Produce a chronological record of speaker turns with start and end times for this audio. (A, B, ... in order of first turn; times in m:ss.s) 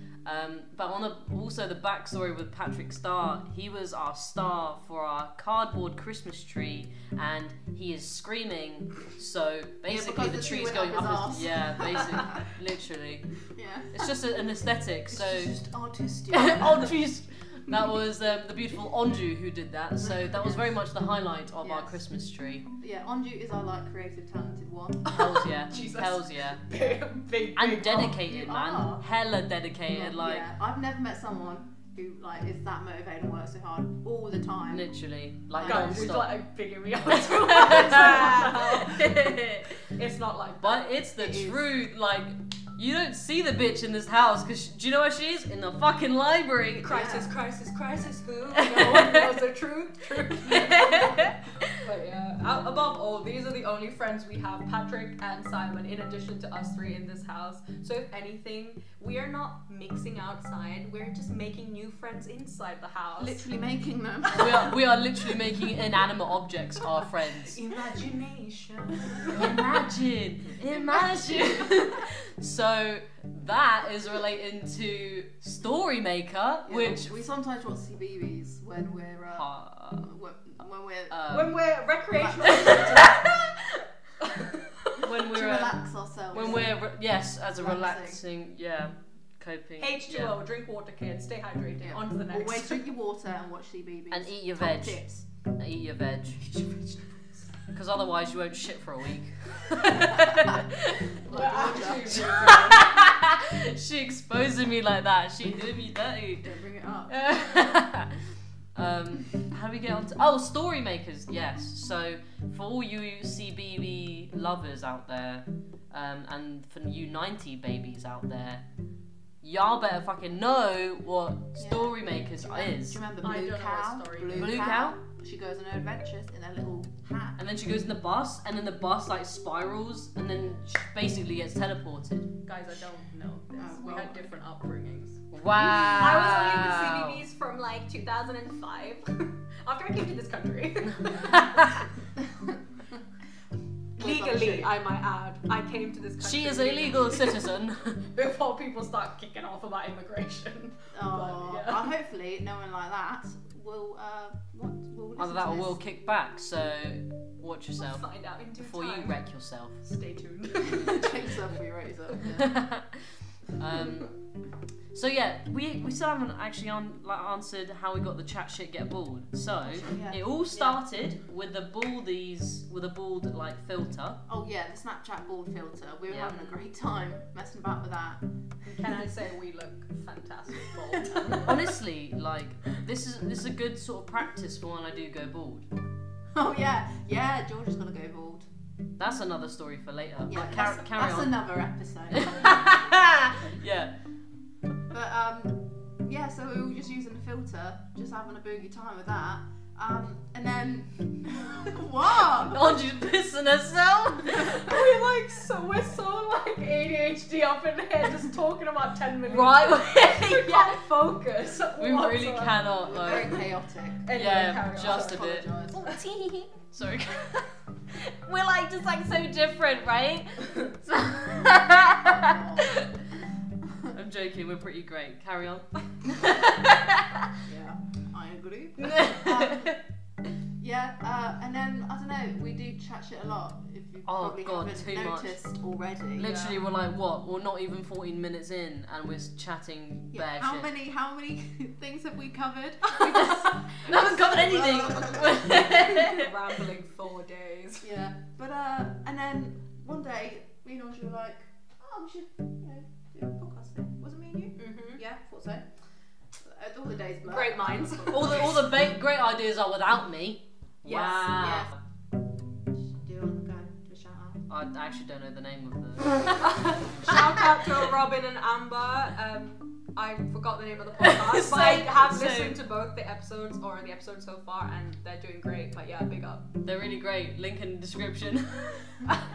0:00.2-0:13.4 A
0:09.9-0:12.5 B
0:13.5-0:14.1 B
0:13.9-0:15.6 A
0:15.1-0:17.0 B
0:16.3-0:22.7 A
0:20.0-0:20.8 B
0:21.6-0:22.0 B
0:22.8-0:25.2 B
0:25.1-0:26.6 A
0:25.2-0:28.1 C
0:27.6-0:30.5 A
0:27.9-0:29.0 B
0:29.9-0:34.9 B
0:34.7-0:36.4 A
0:35.6-0:36.1 B
0:35.6-0:40.9 C
0:37.1-0:39.8 A
0:40.6-0:47.0 A
0:41.2-0:41.7 B
0:46.8-1:03.5 C
0:46.9-0:47.4 B
0:48.6-0:49.3 A
0:50.3-0:51.7 A
1:03.2-1:04.8 B
1:04.3-1:07.6 A
1:07.4-1:09.7 C
1:09.3-1:17.2 A
1:11.0-1:11.5 C
1:16.6-1:21.4 B
1:19.3-1:20.1 A
1:21.1-1:21.6 A
1:21.3-1:23.4 C
1:22.1-1:23.1 B
1:22.5-1:23.3 A
1:24.2-1:25.0 C
1:25.0-1:30.4 A
1:25.0-1:26.8 B
1:27.6-1:28.2 B
1:29.8-1:32.9 C
1:31.8-1:35.3 B
1:34.1-1:37.0 A
1:37.7-1:46.5 A
1:41.2-1:42.6 B
1:41.3-1:42.9 C
1:46.4-1:47.8 B
1:47.1-1:58.6 A
1:59.4-2:03.0 A
2:01.6-2:07.4 B
2:03.2-2:04.7 C
2:04.3-2:05.0 A
2:07.4-2:12.3 A
2:12.4-2:15.2 C
2:13.6-2:14.3 B
2:15.3-2:17.2 A
2:15.8-2:21.8 C
2:20.9-2:21.9 A
2:24.0-2:24.7 B
2:24.0-2:31.9 C
2:26.2-2:28.0 A
2:30.9-2:35.8 B
2:35.2-2:38.1 A
2:37.8-2:39.2 C
2:38.6-2:39.8 A
2:39.8-2:41.2 C
2:40.6-2:42.6 B
2:42.3-2:44.1 A
2:44.9-2:54.2 A
2:49.6-2:50.7 B
2:54.3-2:58.2 B
2:56.1-2:56.5 A
2:58.6-3:01.6 C
3:01.3-3:05.7 A
3:06.4-3:08.5 B
3:09.0-3:11.4 A
3:10.3-3:12.7 B
3:12.1-3:14.0 A
3:14.9-3:22.7 B
3:22.3-3:24.6 A
3:24.3-3:32.9 C
3:29.2-3:30.8 A
3:31.8-3:33.4 A
3:32.8-3:35.9 B
3:34.0-3:35.3 C
3:34.1-3:43.0 A
3:42.0-3:42.8 B
3:43.9-3:47.3 A
3:47.4-3:49.8 B
3:48.8-3:49.8 A
3:50.6-3:56.5 B
3:54.1-3:55.4 A
3:56.2-4:00.7 A
3:56.3-3:56.6 C
4:00.1-4:06.0 B
4:03.0-4:06.3 A
4:05.8-4:07.9 C
4:07.8-4:15.7 B
4:14.6-4:15.0 C
4:16.4-4:18.7 B
4:17.3-4:18.5 C
4:18.1-4:21.7 A
4:20.8-4:21.4 C
4:21.3-4:21.7 B
4:22.7-4:24.5 B
4:24.5-4:27.5 A
4:26.4-4:36.5 C
4:31.0-4:32.6 A
4:36.6-4:39.1 A